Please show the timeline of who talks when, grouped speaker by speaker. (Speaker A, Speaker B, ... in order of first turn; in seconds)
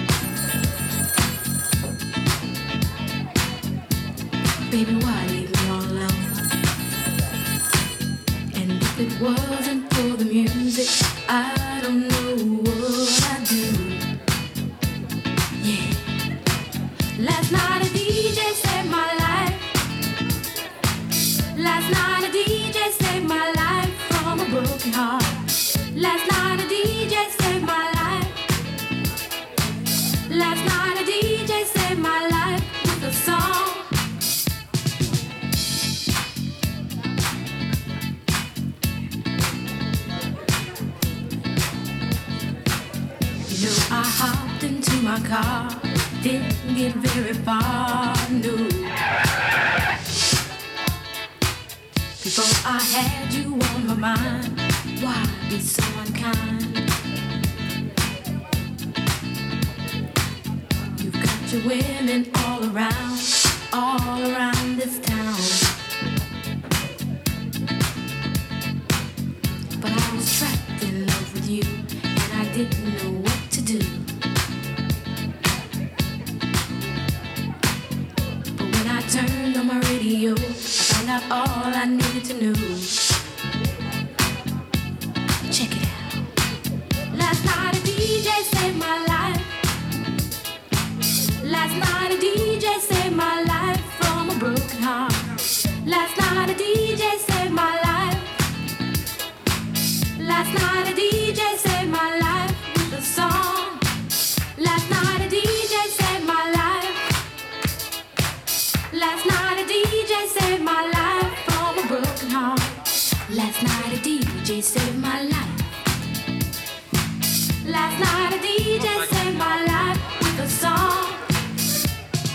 Speaker A: 4.7-6.5, 8.5-14.0, 15.6-16.2, 17.1-19.7, 21.5-28.4, 30.3-33.9, 43.5-49.0, 52.2-56.9, 61.0-65.7, 69.8-74.1, 78.5-83.0, 85.5-86.2, 87.1-89.6, 91.4-95.3, 95.8-98.3, 100.2-103.8, 104.5-107.1, 108.9-112.7, 113.3-115.6, 117.6-121.2